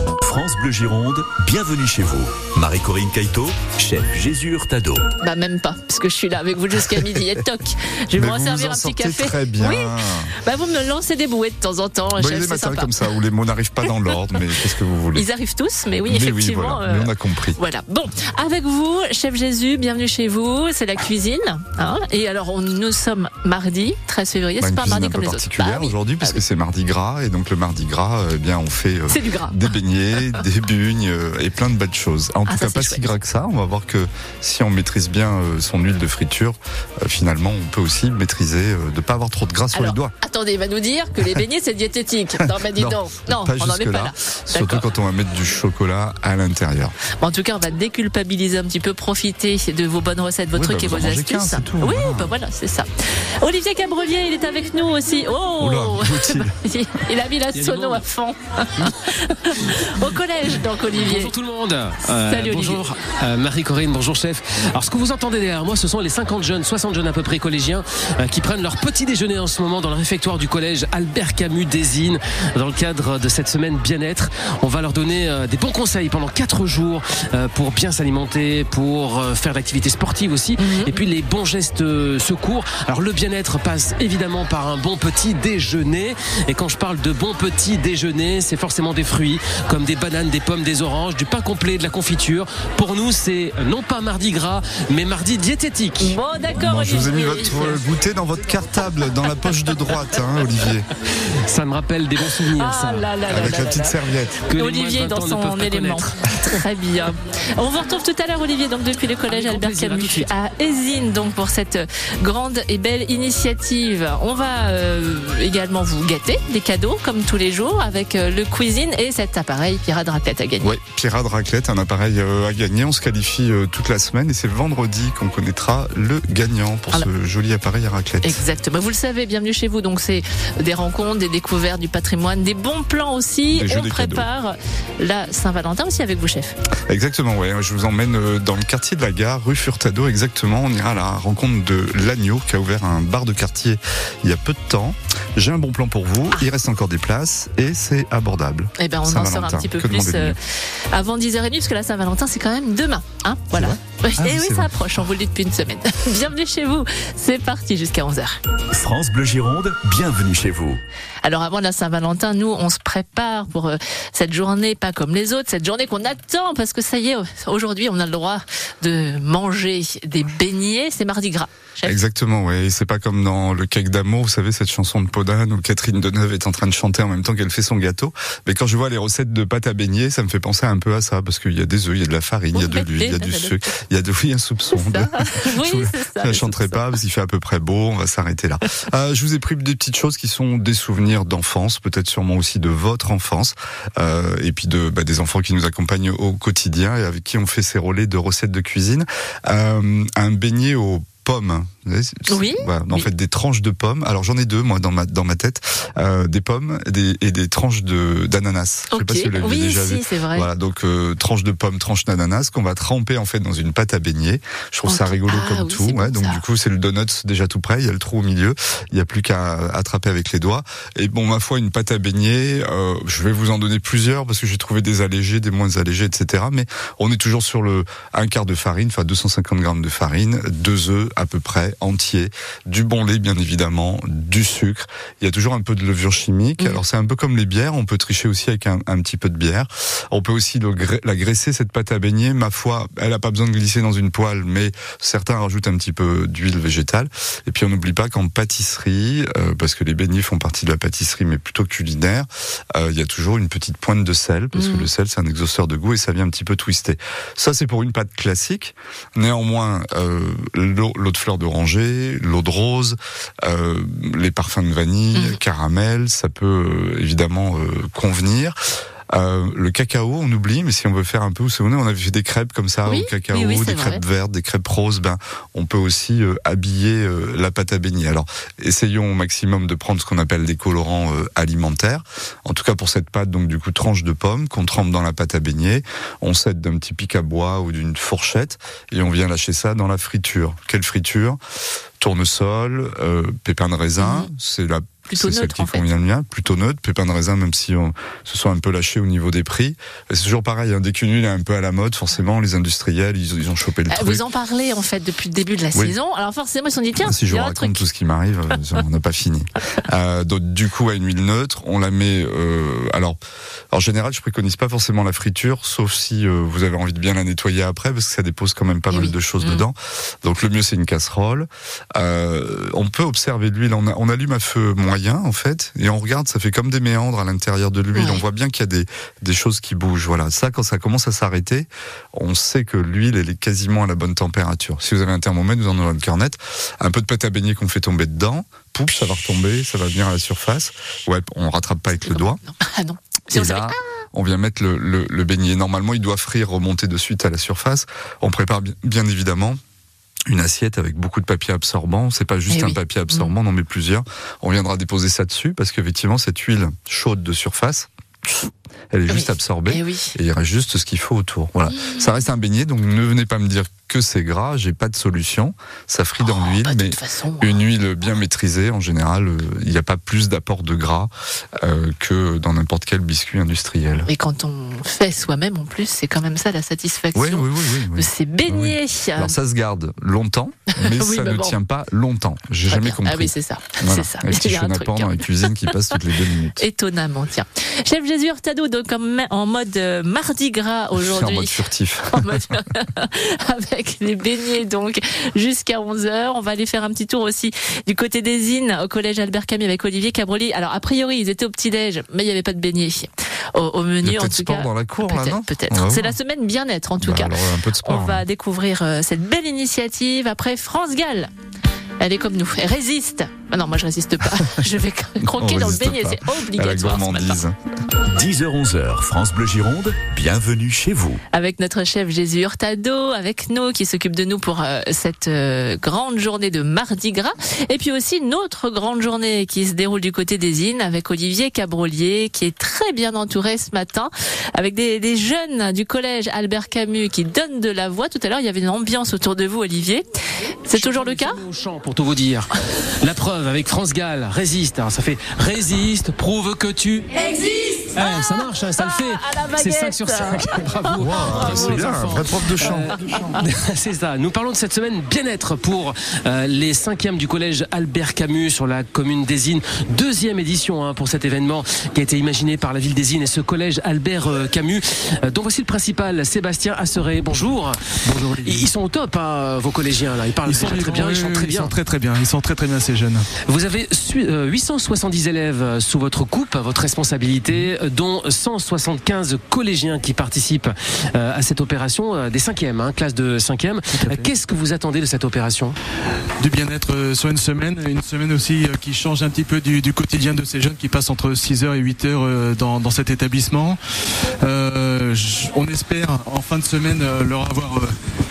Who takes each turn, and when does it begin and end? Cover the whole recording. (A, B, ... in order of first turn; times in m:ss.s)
0:00.2-0:05.0 A
0:05.2-0:13.0 B
0:08.2-0:10.3 C
0:12.2-0:15.3 C
0:15.2-0:26.4 B
0:16.0-0:17.6 C
0:24.6-0:40.1 C
0:29.1-0:29.6 B
0:32.5-0:33.1 B
0:39.8-0:44.8 B
0:42.6-0:47.0 C
0:47.2-0:52.9 B
0:50.5-0:52.3 C
0:53.4-1:01.3 B
0:55.6-0:56.5 C
0:57.5-0:58.0 D
1:00.9-1:36.2 D
1:02.2-1:02.8 B
1:20.6-1:20.9 B
1:36.0-1:37.8 B
1:36.6-1:40.8 C
1:41.4-1:43.4 D
1:42.5-1:44.0 B
1:43.3-1:44.4 C
1:44.5-1:46.1 D
1:44.5-2:00.7 B
1:49.3-1:50.3 D
2:00.6-2:08.4 C
2:08.2-2:16.6 B
2:13.5-2:14.3 C
2:16.9-2:30.4 C
2:28.8-2:30.4 B
2:30.9-2:38.4 B
2:33.5-2:35.0 C
2:38.7-2:40.8 A
2:41.2-2:52.0 B
2:51.8-4:28.6 C
3:02.5-3:03.6 B
3:04.7-3:06.8 B
3:22.3-3:23.1 B
3:28.9-3:30.5 B
3:34.9-3:36.4 B
4:14.6-4:14.9 B
4:29.1-4:51.4 C
4:32.9-4:34.0 B
4:52.0-5:04.2 C
4:54.0-4:54.3 B
4:55.1-4:55.9 B
5:03.9-5:07.8 B
5:07.0-5:13.2 C
5:13.7-5:42.4 C
5:18.9-5:19.6 B
5:27.9-5:28.2 B
5:42.0-5:43.8 B
5:43.3-5:49.6 C
5:50.3-6:14.1 C
5:52.5-5:53.3 B
5:59.1-6:00.1 B
6:06.2-6:07.6 B
6:14.1-6:19.3 B
6:17.1-6:26.7 C
6:20.8-6:21.6 B
6:22.7-6:25.5 B
6:26.6-6:31.6 B
6:31.0-6:32.5 C
6:32.1-6:51.3 B
6:44.0-6:46.2 C
6:47.0-6:48.2 C
6:52.0-6:57.4 B
6:55.2-6:57.6 C
6:58.1-7:01.2 A
7:01.3-7:20.0 B
7:20.7-7:21.4 B
7:20.7-7:27.1 D
7:27.2-7:32.4 B
7:28.0-7:47.8 D
7:31.0-7:32.9 C
7:33.1-7:33.4 B
7:48.0-7:48.7 E
7:48.4-7:51.7 D
7:50.4-7:53.3 E
7:53.5-8:05.8 D
8:04.0-8:04.3 E
8:06.4-8:13.8 E
8:14.4-8:17.9 E